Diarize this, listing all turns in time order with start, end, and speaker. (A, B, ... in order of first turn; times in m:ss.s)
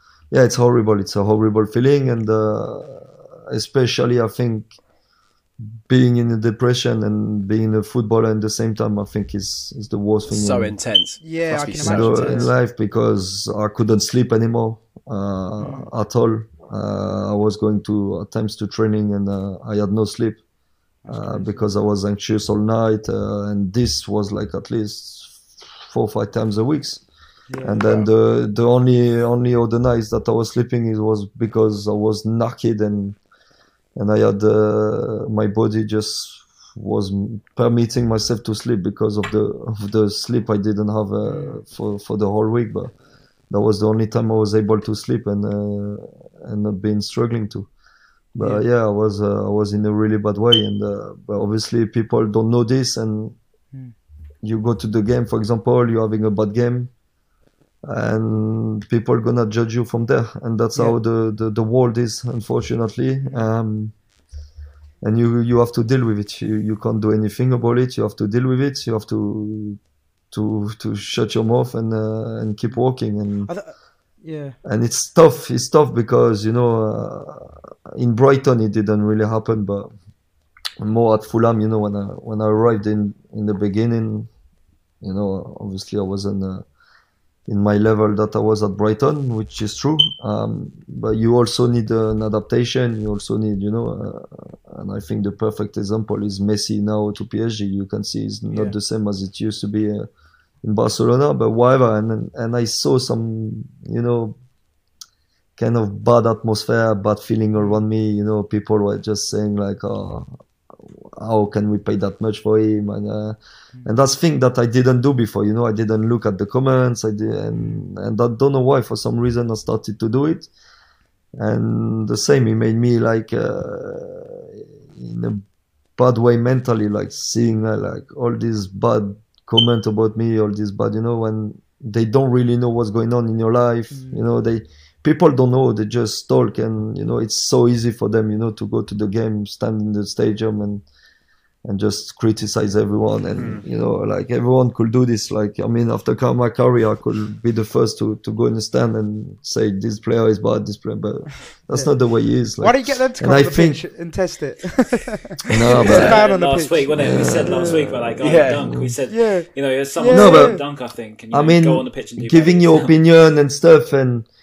0:00.3-0:04.7 A
0:05.9-0:10.7 A
0:10.3-0:12.5 B
0:11.2-0:12.5 C
0:11.8-0:20.4 A
0:15.6-0:15.9 C
0:21.0-0:21.6 C
0:21.1-0:27.0 A
0:27.5-0:28.1 C
0:27.6-0:33.2 A
0:33.9-0:42.9 A
0:41.2-0:41.6 C
0:43.5-0:47.7 A
0:48.3-0:53.4 A
0:54.4-0:56.9 A
0:57.8-1:03.9 A
1:05.0-1:09.8 A
1:10.3-1:13.5 A
1:14.2-1:14.6 C
1:14.6-1:19.9 A
1:20.8-1:24.3 A
1:25.0-1:26.6 A
1:27.5-1:40.1 A
1:40.6-1:44.4 A
1:45.6-2:00.5 A
1:57.5-1:57.8 C
2:01.4-2:05.4 A
2:06.0-2:20.8 A
2:13.9-2:14.2 C
2:21.6-2:33.8 A
2:23.4-2:23.6 B
2:32.6-2:37.9 C
2:35.5-2:36.2 A
2:35.7-2:42.9 D
2:35.8-2:36.2 B
2:36.9-2:38.9 A
2:38.2-2:38.6 B
2:39.1-2:39.5 C
2:40.0-2:40.6 C
2:40.1-2:40.6 A
2:41.3-2:44.3 A